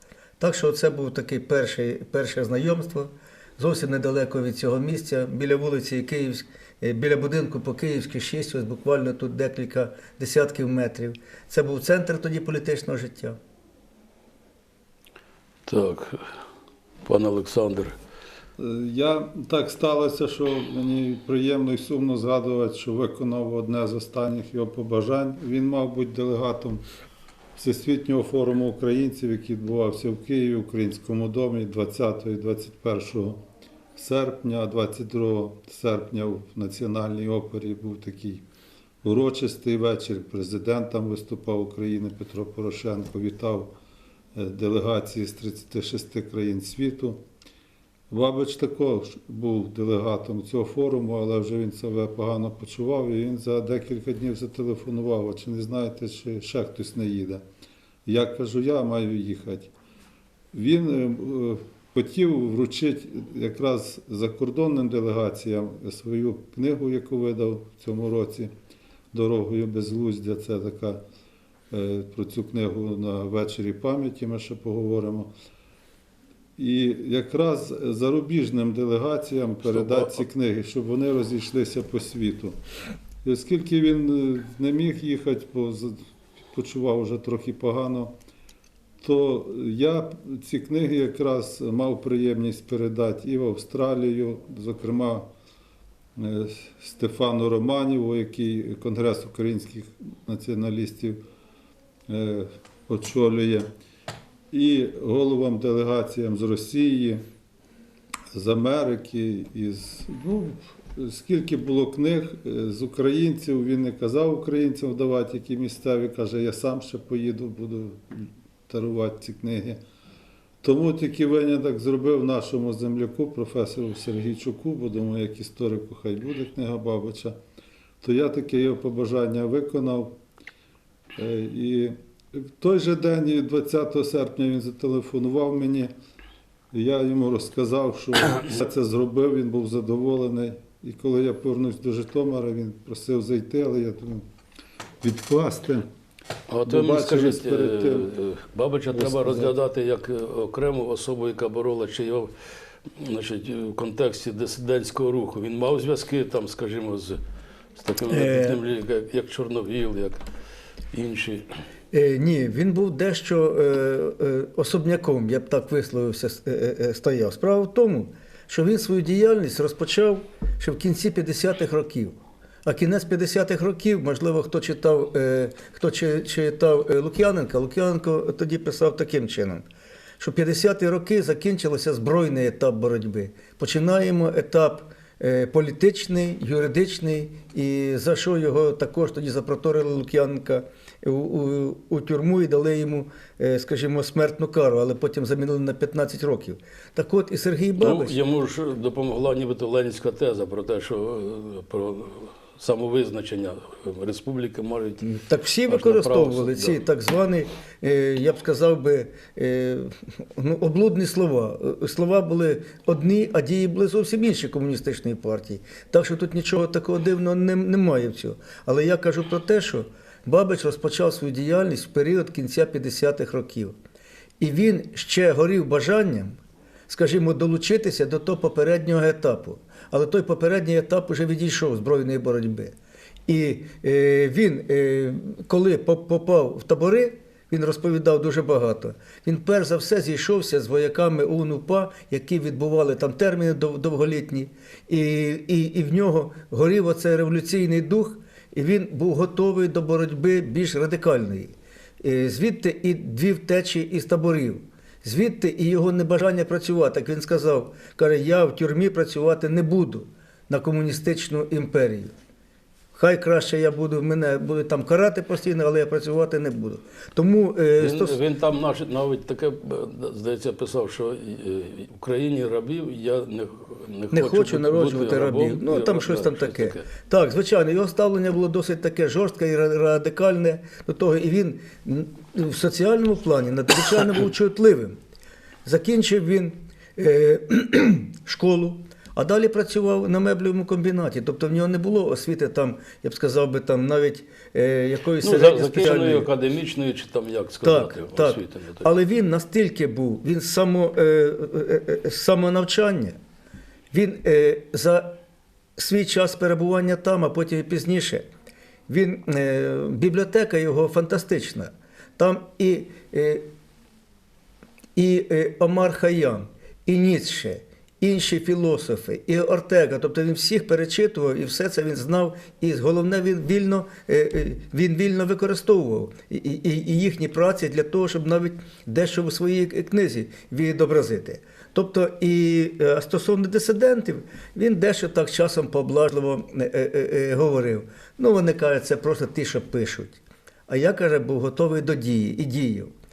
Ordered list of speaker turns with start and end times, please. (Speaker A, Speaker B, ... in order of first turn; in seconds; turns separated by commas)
Speaker A: 0.4-13.4, Speaker B: 15.7-16.2, Speaker B: 17.0-17.9, Speaker C: 18.6-26.8, Speaker C: 27.6-33.4, Speaker C: 33.9-38.4, Speaker C: 39.0-43.7, Speaker C: 44.3-47.2, Speaker C: 48.1-57.4, Speaker C: 58.0-59.7, Speaker C: 60.5-68.5, Speaker C: 69.1-71.0, Speaker C: 71.7-75.3, Speaker C: 76.6-82.6, Speaker C: 83.2-86.0, Speaker C: 86.5-88.1, Speaker C: 89.0-95.3, Speaker C: 96.2-101.2, Speaker C: 102.1-103.7, Speaker C: 104.5-107.2, Speaker C: 108.3-119.8, Speaker C: 120.6-127.4, Speaker C: 128.0-130.2, Speaker C: 131.1-135.9, Speaker C: 136.7-144.2, Speaker C: 145.0-145.9, Speaker B: 146.5-152.3, Speaker C: 146.7-148.1, Speaker C: 148.9-149.5, Speaker B: 152.9-157.2, Speaker B: 157.8-160.2, Speaker A: 158.1-158.6, Speaker B: 160.9-161.4, Speaker A: 161.9-179.6, Speaker A: 180.2-198.2, Speaker B: 197.8-206.8, Speaker A: 205.0-223.8, Speaker A: 224.4-226.4, Speaker A: 226.9-232.7, Speaker A: 233.3-262.1, Speaker A: 262.9-268.2, Speaker B: 267.8-276.9, Speaker A: 274.1-285.0, Speaker A: 285.6-296.3, Speaker B: 295.2-298.9, Speaker A: 297.6-303.2, Speaker A: 303.9-305.2, Speaker A: 305.8-308.3, Speaker A: 308.9-313.5, Speaker A: 314.9-342.9